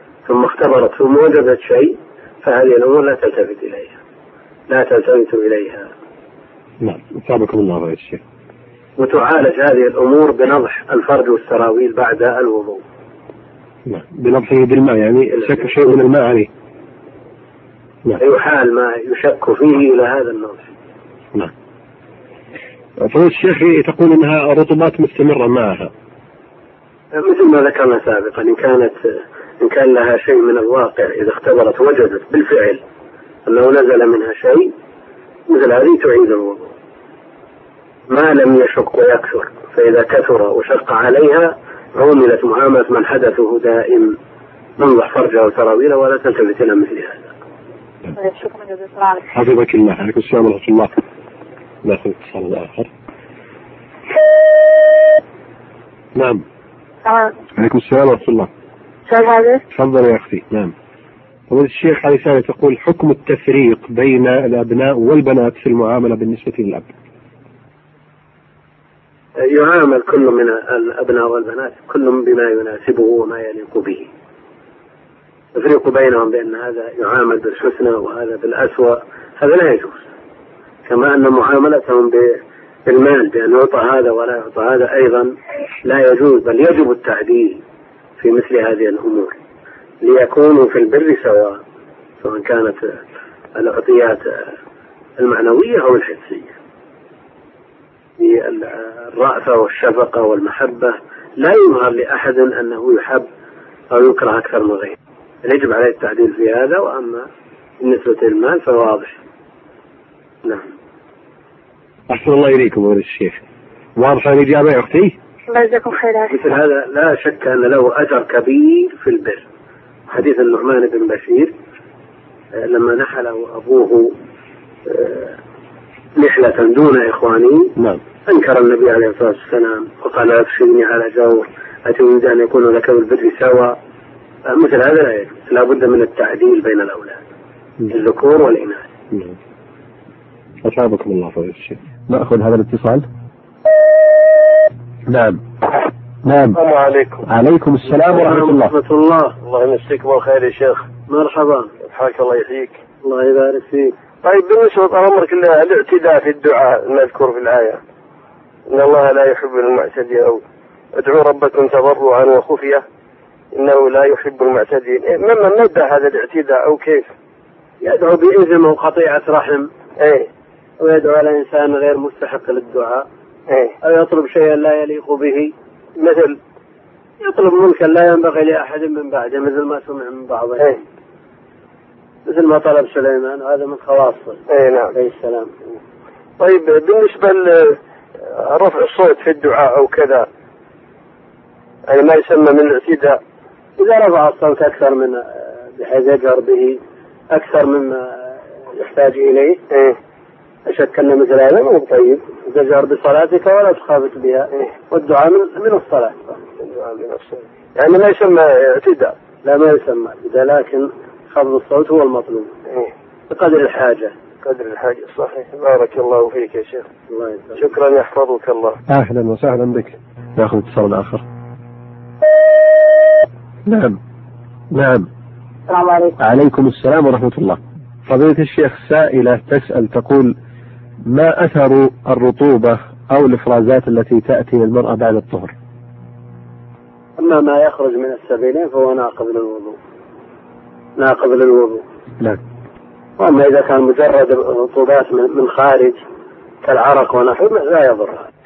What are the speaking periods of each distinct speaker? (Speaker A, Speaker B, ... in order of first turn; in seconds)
Speaker A: 0.2-4.0, 4.7-5.9, 9.0-12.8, 18.2-20.7, 27.1-32.8, 33.5-34.7, 35.5-36.7, 38.1-44.2, 44.8-47.3, 69.4-74.1, 75.5-80.1, 80.8-85.3, 85.8-87.6, 88.2-89.3, 90.0-91.6, 92.2-93.0, 93.6-94.5, 95.2-96.5, 98.2-103.2, 103.9-107.3, 107.8-109.2, 116.3-119.4, 120.1-121.5, 122.5-124.1, 124.8-125.4, 126.2-127.7, 128.3-133.8, 134.5-137.2, 137.9-138.9, 148.1-149.3, 151.1-151.7, 153.0-153.9, 167.8-169.7, 170.8-173.1, 173.8-175.5, 177.2-180.8, 182.2-185.5, 193.8-196.8, 197.3-199.6, 200.7-206.4, 209.4-212.5, 213.3-214.2, 217.1-217.6, 237.2-239.8, 241.0-241.8, 243.2-246.0, 246.6-248.3
Speaker B: 6.8-8.2, 13.9-16.5, 23.0-25.9, 49.3-50.9, 51.8-52.9, 56.1-56.4, 57.5-58.5, 59.7-60.7, 61.5-66.9, 112.1-113.4, 114.0-115.1, 140.6-143.1, 145.1-145.4, 146.2-146.6, 147.2-148.7, 218.9-221.2, 223.7-224.0, 224.7-225.1, 226.2-230.3, 231.1-235.5
Speaker C: 48.1-49.2, 57.0-57.3, 59.1-59.6, 115.5-116.3, 225.7-226.1
Speaker D: 146.5-147.2, 149.4-150.9, 151.8-152.8, 154.2-157.8, 158.7-160.4, 160.9-162.8, 163.5-167.1, 170.0-170.3, 173.5-173.7, 176.0-176.4, 184.5-184.9, 186.4-190.3, 191.9-193.2, 199.7-200.0, 206.6-209.1, 214.4-216.9, 217.5-218.8